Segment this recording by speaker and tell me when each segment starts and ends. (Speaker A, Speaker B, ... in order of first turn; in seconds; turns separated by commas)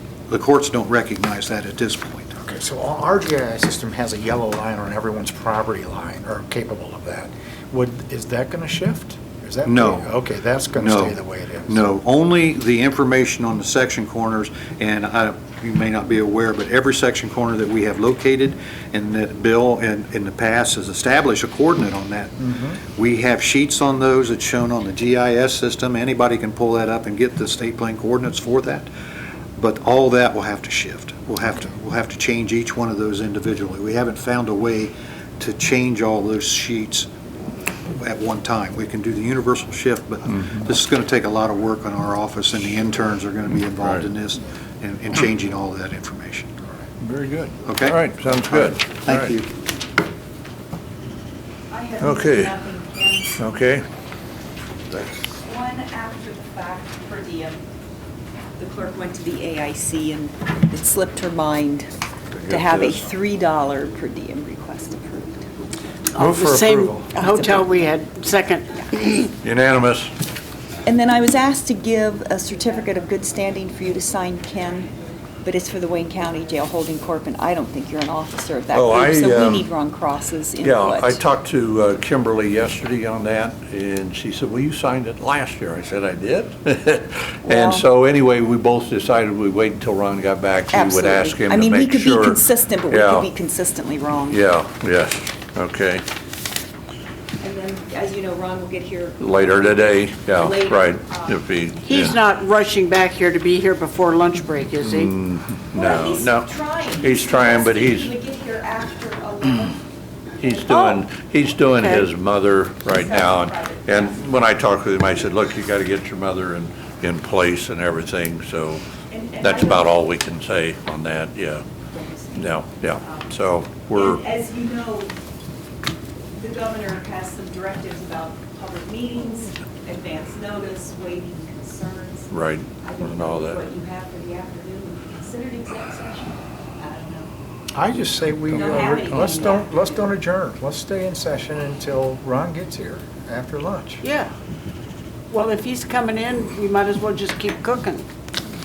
Speaker A: 0.3-2.3, Speaker B: 2.4-11.8, Speaker A: 9.7-10.1, Speaker A: 10.8-11.1, Speaker A: 11.7-28.9, Speaker B: 22.4-22.8, Speaker A: 29.6-37.1, Speaker A: 38.0-46.6, Speaker C: 43.8-44.0, Speaker C: 47.0-49.3, Speaker A: 47.6-49.5, Speaker D: 51.7-53.4, Speaker C: 52.0-52.5, Speaker C: 53.4-53.8, Speaker C: 54.9-55.2, Speaker D: 55.3-57.6, Speaker D: 58.6-61.9, Speaker C: 62.3-63.0, Speaker D: 62.5-65.5, Speaker E: 66.1-69.3, Speaker C: 66.2-67.1, Speaker D: 67.2-67.8, Speaker C: 69.4-70.1, Speaker D: 70.8-74.9, Speaker D: 75.4-81.2, Speaker C: 78.7-79.7, Speaker C: 80.6-93.3, Speaker D: 87.5-87.8, Speaker D: 90.7-94.4, Speaker C: 94.3-96.0, Speaker D: 97.4-101.4, Speaker C: 99.2-102.2, Speaker E: 101.8-105.1, Speaker C: 104.8-106.5, Speaker D: 105.7-109.8, Speaker C: 107.0-108.1, Speaker C: 110.4-118.8, Speaker E: 110.7-111.0, Speaker E: 111.7-112.0, Speaker D: 112.9-114.3, Speaker D: 119.1-119.9, Speaker C: 119.4-121.6, Speaker D: 121.9-123.3, Speaker C: 122.3-124.2, Speaker D: 123.8-125.1, Speaker D: 126.3-132.3, Speaker C: 132.3-133.6, Speaker D: 132.8-137.3, Speaker B: 137.7-144.0, Speaker D: 138.5-139.9, Speaker E: 144.0-144.3, Speaker E: 145.3-148.0